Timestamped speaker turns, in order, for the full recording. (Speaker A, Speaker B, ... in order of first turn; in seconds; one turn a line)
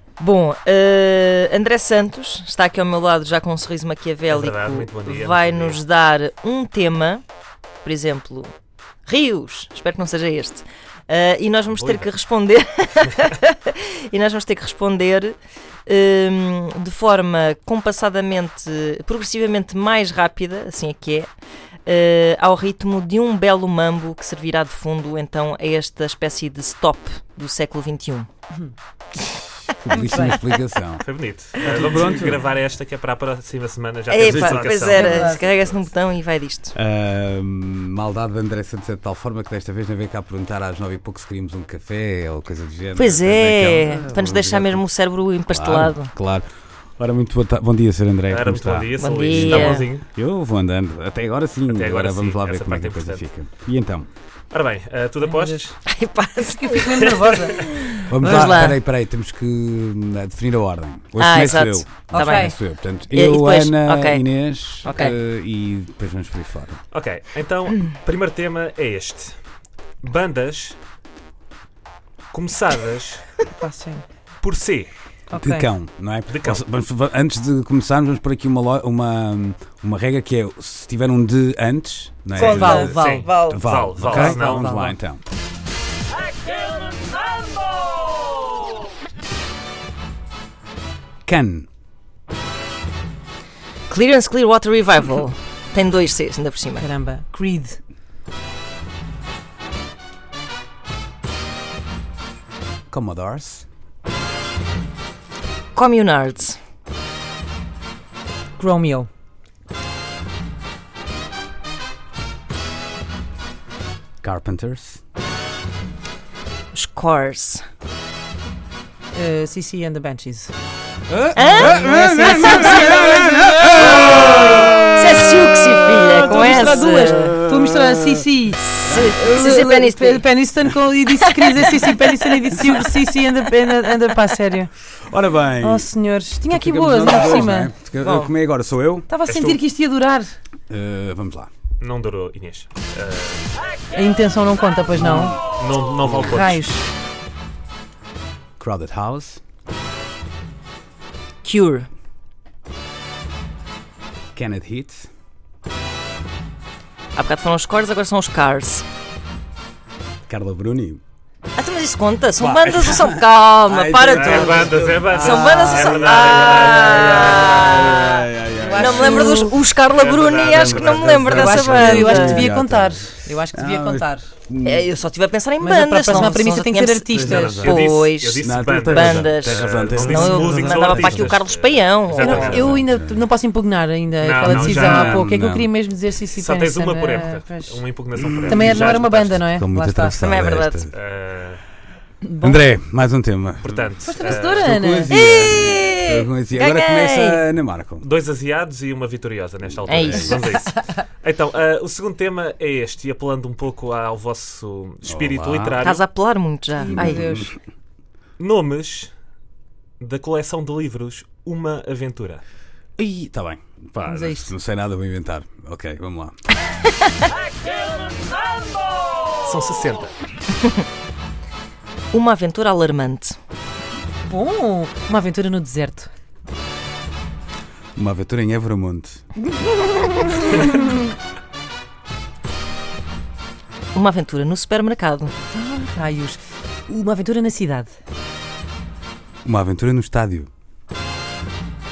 Speaker A: 0.2-7.2
Speaker B: 4.3-5.8
Speaker A: 7.8-8.5
Speaker A: 9.1-15.3
Speaker B: 11.7-12.1
Speaker A: 15.9-21.3
Speaker A: 21.9-28.3
Speaker C: 29.7-32.5
Speaker D: 29.9-30.4
Speaker B: 31.0-35.9
Speaker A: 34.1-36.7
Speaker C: 34.2-34.8
Speaker D: 34.9-35.5
Speaker C: 36.8-44.8
Speaker A: 43.0-46.1
Speaker C: 45.5-54.1
Speaker B: 48.3-50.0
Speaker A: 49.0-49.9
Speaker B: 51.7-53.3
Speaker B: 54.5-55.7
Speaker D: 55.2-55.7
Speaker A: 55.9-58.8
Speaker D: 56.4-57.6
Speaker B: 57.0-57.8
Speaker C: 58.1-66.8
Speaker A: 61.2-62.5
Speaker D: 62.1-62.5
Speaker A: 63.1-64.3
Speaker A: 64.8-65.2
Speaker B: 66.9-69.3
Speaker B: 70.0-70.8
Speaker B: 72.3-73.3
Speaker D: 73.5-74.1
Speaker B: 74.4-74.9
Speaker D: 75.3-75.7
Speaker C: 75.4-85.2
Speaker B: 76.3-76.6
Speaker B: 82.3-84.7
Speaker A: 82.4-82.9
Speaker D: 82.4-84.9
Speaker C: 91.3-91.7
Speaker A: 93.9-96.9
Speaker D: 96.8-97.8
Speaker C: 102.9-103.7
Speaker A: 105.8-106.6
Speaker D: 108.6-109.1
Speaker C: 114.2-115.0
Speaker A: 116.7-117.6
Speaker D: 119.1-120.5
Speaker C: 121.1-128.3
Speaker A: 121.4-121.9
Speaker D: 121.5-124.4
Speaker A: 122.5-123.0
Speaker A: 123.7-127.4
Speaker D: 126.2-134.7
Speaker A: 128.8-130.3
Speaker C: 128.8-129.3
Speaker A: 131.1-132.0
Speaker C: 134.9-135.9
Speaker D: 135.6-137.7
Speaker C: 136.5-139.1
Speaker A: 138.0-138.3
Speaker D: 139.1-140.3
Speaker B: 139.3-139.6
Speaker C: 140.7-141.5
Speaker B: 141.8-143.4
Speaker D: 143.9-145.4
Speaker C: 144.9-145.4
Speaker B: 145.6-146.7
Speaker C: 146.0-146.5
Speaker D: 146.3-146.8
Speaker C: 148.6-149.4
Speaker A: 151.4-151.9
Speaker C: 154.3-155.1
Speaker A: 157.2-158.8
Speaker C: 160.3-161.0
Speaker A: 161.6-172.5
Speaker C: 162.4-169.5
Speaker B: 164.1-167.5
Speaker D: 168.6-169.6
Speaker B: 169.9-171.5
Speaker C: 170.5-174.9
Speaker D: 171.3-174.3
Speaker A: 174.6-182.8
Speaker D: 175.6-177.6
Speaker C: 177.2-181.3
Speaker B: 177.2-182.8
Speaker D: 180.1-180.9
Speaker D: 182.2-187.7
Speaker C: 182.5-183.3
Speaker B: 184.2-185.3
Speaker C: 184.4-185.7
Speaker B: 186.4-189.4
Speaker C: 188.2-190.9
Speaker D: 188.5-190.2
Speaker A: 190.2-190.9
Speaker B: 190.9-191.6
Speaker D: 192.2-192.6
Speaker C: 192.4-198.1
Speaker B: 193.6-194.8
Speaker D: 194.1-195.1
Speaker A: 195.1-197.4
Speaker B: 198.0-206.0
Speaker C: 199.8-200.4
Speaker A: 199.9-200.6
Speaker C: 205.1-205.8
Speaker A: 205.8-207.3
Speaker D: 206.8-207.6
Speaker C: 206.9-207.6
Speaker B: 208.4-209.1
Speaker B: 210.0-212.4
Speaker C: 213.0-216.3
Speaker D: 214.1-214.5
Speaker B: 219.4-220.2
Speaker A: 222.1-223.4
Speaker D: 224.3-226.1
Speaker C: 228.0-229.2
Speaker D: 229.6-231.1
Speaker A: 233.9-235.3
Speaker D: 235.5-238.0
Speaker C: 239.4-240.5